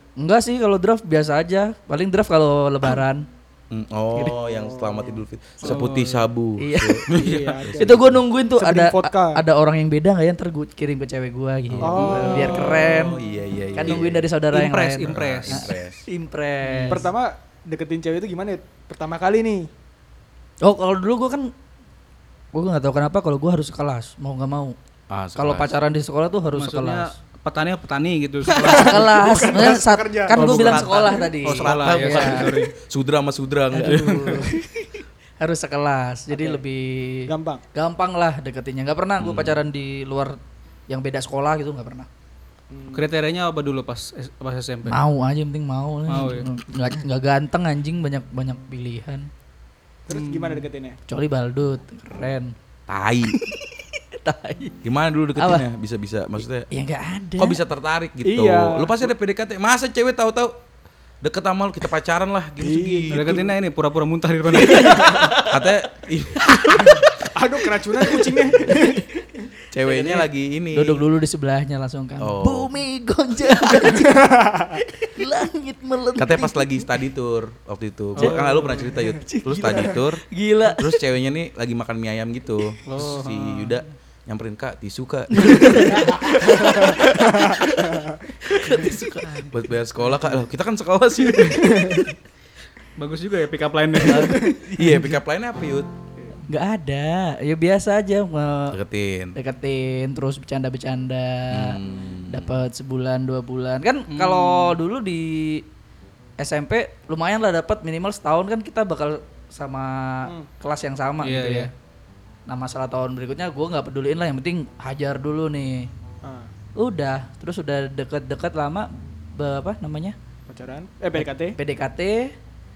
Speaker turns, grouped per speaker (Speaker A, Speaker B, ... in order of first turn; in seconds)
Speaker A: 0.2-3.3, 6.6-7.1, 7.8-13.2, 13.8-17.1, 20.6-21.5, 22.5-24.8, 25.4-27.1, 28.6-32.6, 33.7-42.1, 44.9-49.3, 51.1-52.5, 53.3-54.8, 55.4-55.6, 56.7-57.6, 64.5-65.8, 66.5-67.0, 68.0-69.0, 69.9-70.2, 70.7-76.7, 79.0-81.0, 85.4-87.7, 88.5-89.5, 94.0-95.2, 96.5-98.8, 99.4-105.6, 106.4-111.7, 112.5-115.9, 116.8-120.2, 121.2-122.3
Speaker B: 3.7-8.2, 11.7-14.3, 15.1-16.0, 25.1-25.8, 28.5-29.0, 30.3-34.5, 39.2-39.6, 52.9-53.4, 54.8-56.7, 57.4-60.5, 61.2-63.5, 65.5-67.0, 69.7-71.0, 72.2-72.7, 76.2-92.0, 94.3-95.9, 98.7-99.4, 101.5-102.5
Speaker C: 4.2-5.2, 7.1-8.1, 8.6-9.4, 11.8-12.8, 16.9-19.7, 28.6-30.7, 36.3-36.6, 37.3-37.6, 42.7-43.1, 50.1-51.0, 58.2-59.1, 62.6-63.5, 66.8-69.1, 73.8-74.8, 87.4-88.2, 91.4-92.1, 116.2-116.5, 120.5-121.6
Speaker D: 5.6-6.3, 7.2-7.6, 12.0-12.7, 13.9-15.7, 16.6-17.1, 26.6-29.0, 30.7-32.7, 33.9-34.5, 43.0-45.0, 46.1-46.5, 50.1-50.7, 63.1-65.3, 78.2-79.0, 82.9-83.8, 93.0-94.5, 104.1-104.8, 111.2-111.7